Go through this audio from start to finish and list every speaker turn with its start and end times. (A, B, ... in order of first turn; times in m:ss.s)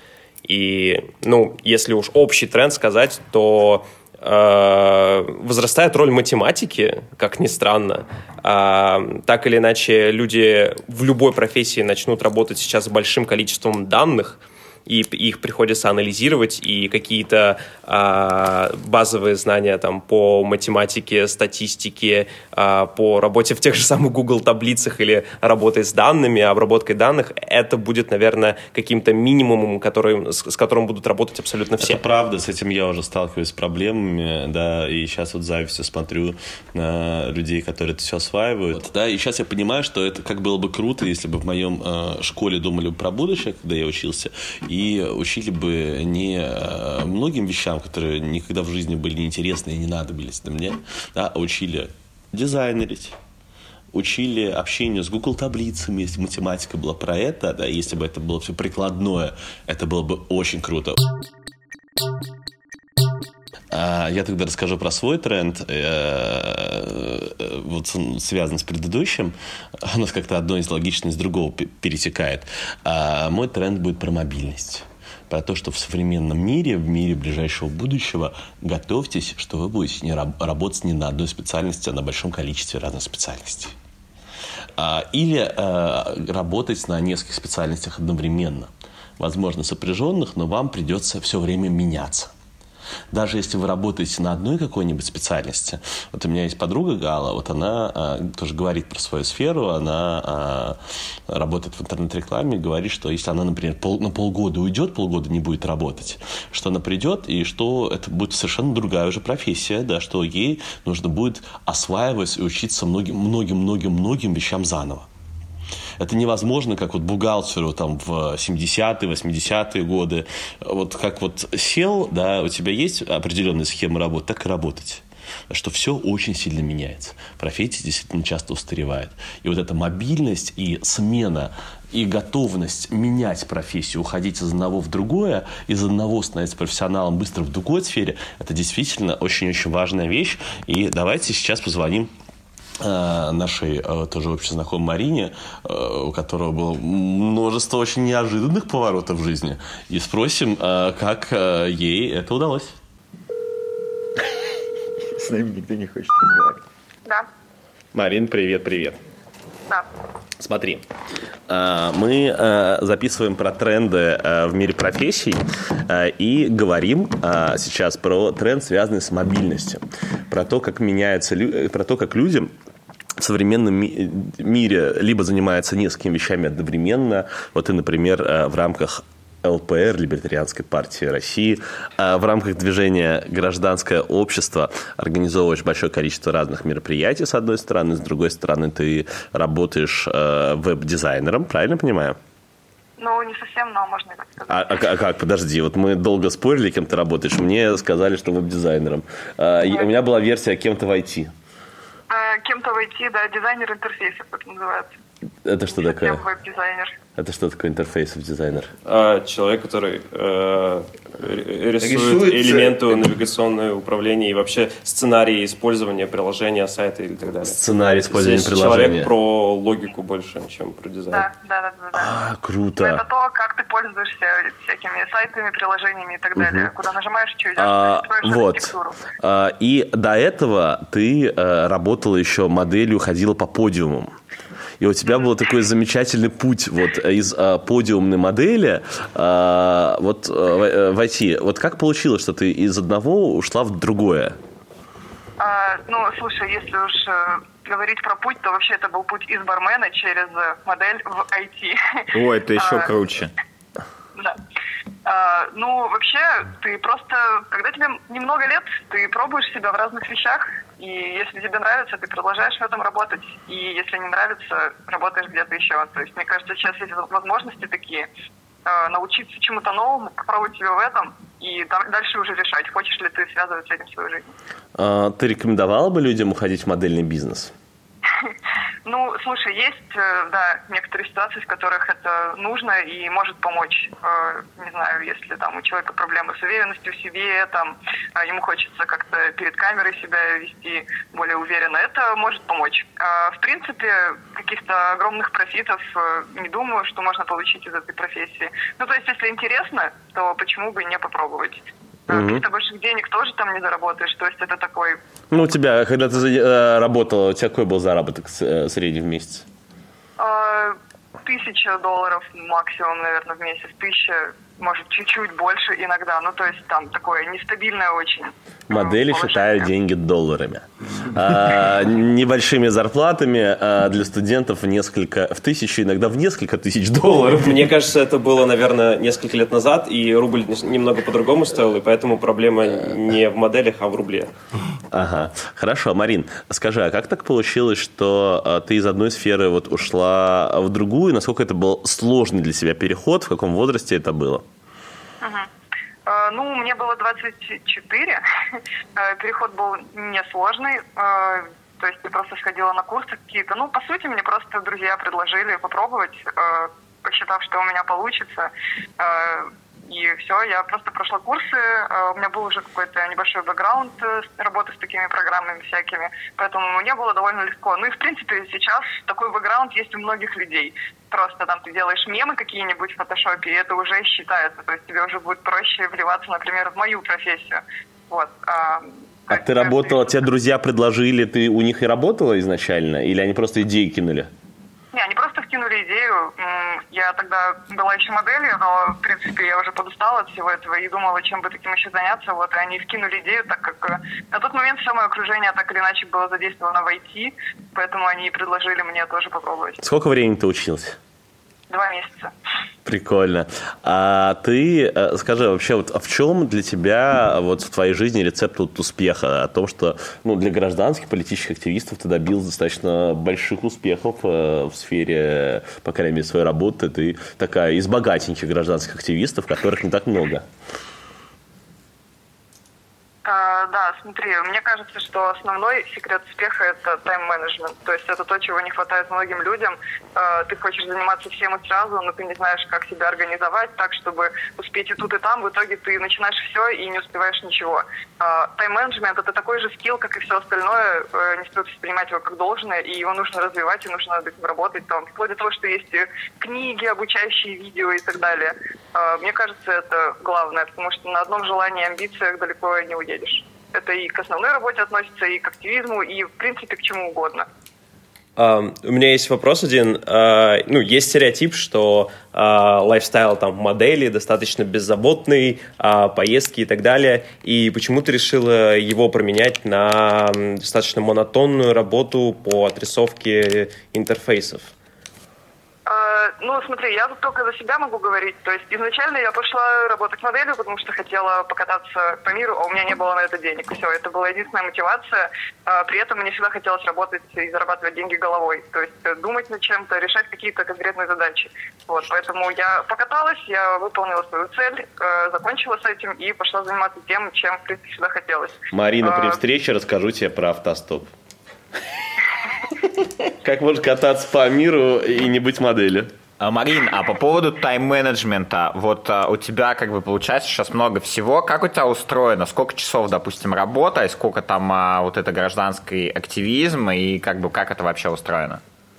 0:00.4-0:32.0 A
0:31.8-0:53.2 B
0:53.9-1:01.0 B
1:03.7-1:23.7 B
1:24.8-1:32.3 B
1:33.1-1:40.8 B
1:41.3-1:55.1 B
1:56.0-2:22.1 B
2:22.8-2:32.8 B
2:35.2-2:36.6 C
2:37.9-2:39.0 B
2:40.4-2:40.8 B
2:41.5-2:52.5 B
2:53.2-3:12.2 B
3:13.0-3:14.9 D
3:14.5-3:21.3 B
3:22.1-3:24.9 D
3:25.4-3:26.2 B
3:25.7-3:27.0 D
3:27.2-3:28.7 B
3:28.9-3:41.3 A
3:31.8-3:32.8 B
3:37.4-3:39.1 B
3:41.1-3:42.2 D
3:41.9-3:43.0 B
3:42.8-3:49.0 D
3:46.4-3:46.7 B
3:47.6-3:54.1 B
3:54.8-4:04.4 B
4:05.4-4:12.9 D
4:12.1-4:13.3 C
4:15.0-4:28.1 D
4:28.7-4:34.3 D
4:34.8-4:37.5 B
4:38.2-5:05.0 D
5:02.1-5:02.4 B
5:05.3-5:09.5 B
5:10.2-5:19.7 D
5:18.7-5:27.7 B
5:27.3-5:34.3 A
5:34.9-5:44.4 B
5:45.2-5:45.5 D
5:46.1-6:20.2 D
6:19.3-6:24.3 B
6:24.9-6:39.8 D
6:39.8-6:41.0 B
6:41.7-6:42.3 D
6:42.8-7:00.5 B
7:03.2-7:37.5 D
7:38.4-7:54.7 A
7:55.9-8:19.4 D
8:18.7-8:21.1 B
8:23.4-8:26.1 B
8:26.4-8:38.6 C